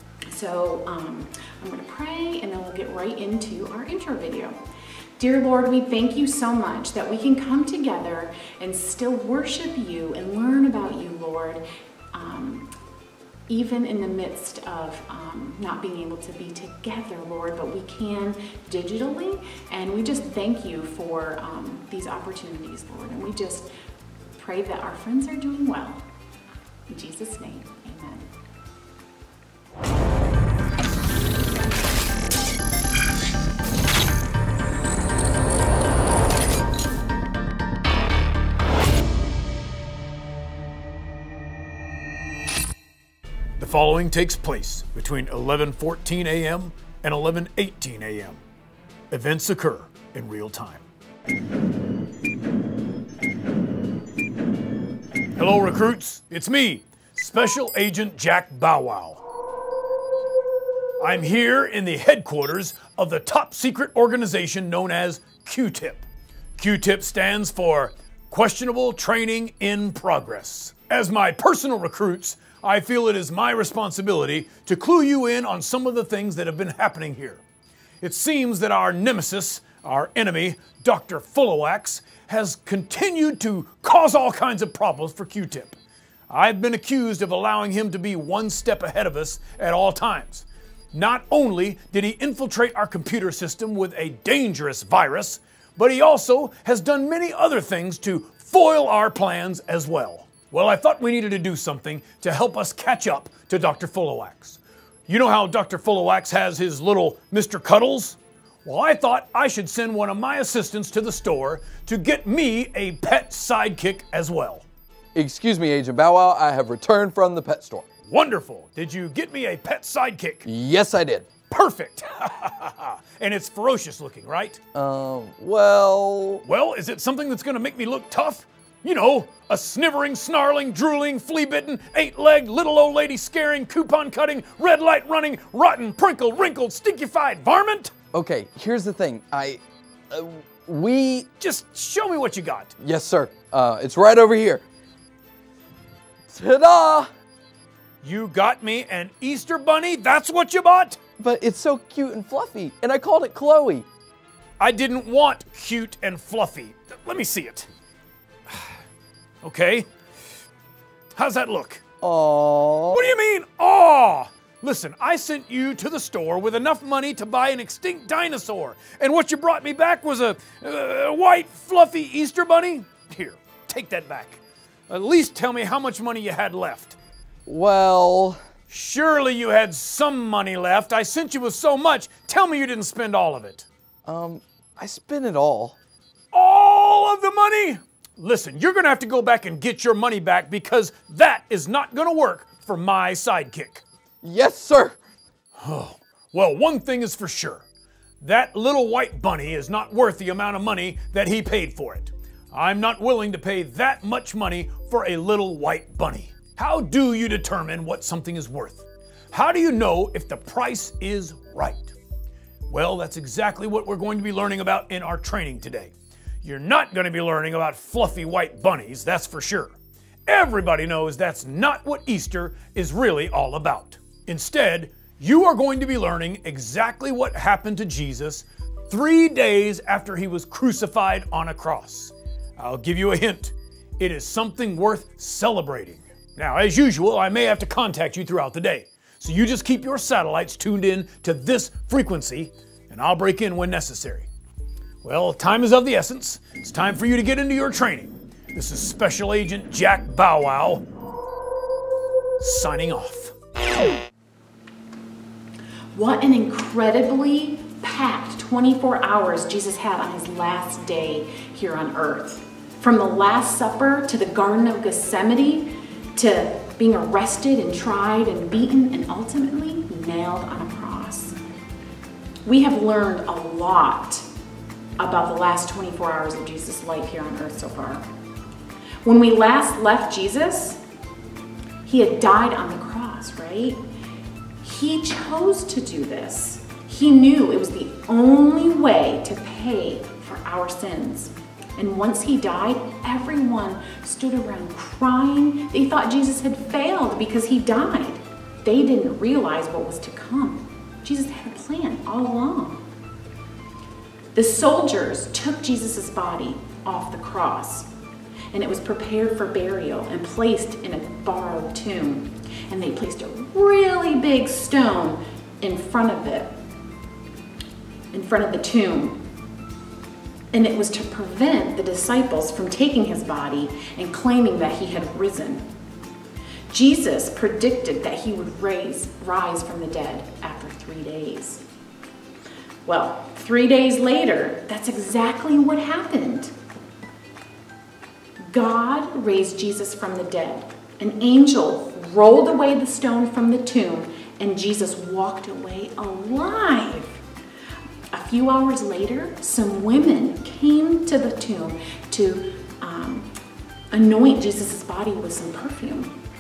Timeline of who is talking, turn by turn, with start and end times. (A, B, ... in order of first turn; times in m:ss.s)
0:00.3-0:04.6 A
0:05.2-0:11.6 A
0:12.1-0:12.7 A
0:13.5-0:23.7 A
0:24.4-0:26.0 A
0:26.9-0:28.3 A
0:43.6-0:48.4 B
0:49.1-0:50.8 B
0:55.4-0:59.2 B
1:01.0-1:06.0 B
1:06.6-1:17.4 B
1:18.0-1:25.8 B
1:26.3-1:54.6 B
1:55.1-1:57.9 C
1:58.1-2:00.4 B
2:00.4-2:01.4 C
2:01.4-2:04.6 B
2:04.7-2:06.4 C
2:06.4-2:17.9 B
2:18.1-2:21.3 C
2:21.4-2:22.7 B
2:22.8-2:24.6 C
2:26.3-2:27.1 C
2:28.0-2:31.0 B
2:31.2-2:33.9 C
2:34.6-2:37.7 B
2:39.4-2:39.9 B
2:41.2-2:41.8 B
2:42.0-2:43.1 C
2:42.9-2:57.0 B
2:57.4-2:58.4 C
2:58.7-3:03.6 B
3:04.0-3:05.8 C
3:06.3-3:13.8 B
3:14.2-3:15.0 C
3:15.6-3:17.6 B
3:18.2-3:31.9 B
3:32.7-3:35.9 B
3:36.4-3:39.7 B
3:40.3-4:04.3 B
4:05.0-4:10.8 B
4:12.4-4:13.3 B
4:15.9-4:31.3 A
4:32.4-4:34.3 A
4:35.0-4:38.0 A
4:39.0-4:40.8 A
4:41.8-4:43.8 A
4:44.6-5:02.8 A
5:04.3-5:07.9 A
5:08.5-5:16.5 A
5:18.1-5:19.2 A
5:20.5-5:25.6 A
5:26.7-5:31.6 A
5:32.8-5:36.5 A
5:38.4-5:47.2 A
5:48.1-5:53.3 A
5:53.9-5:56.1 A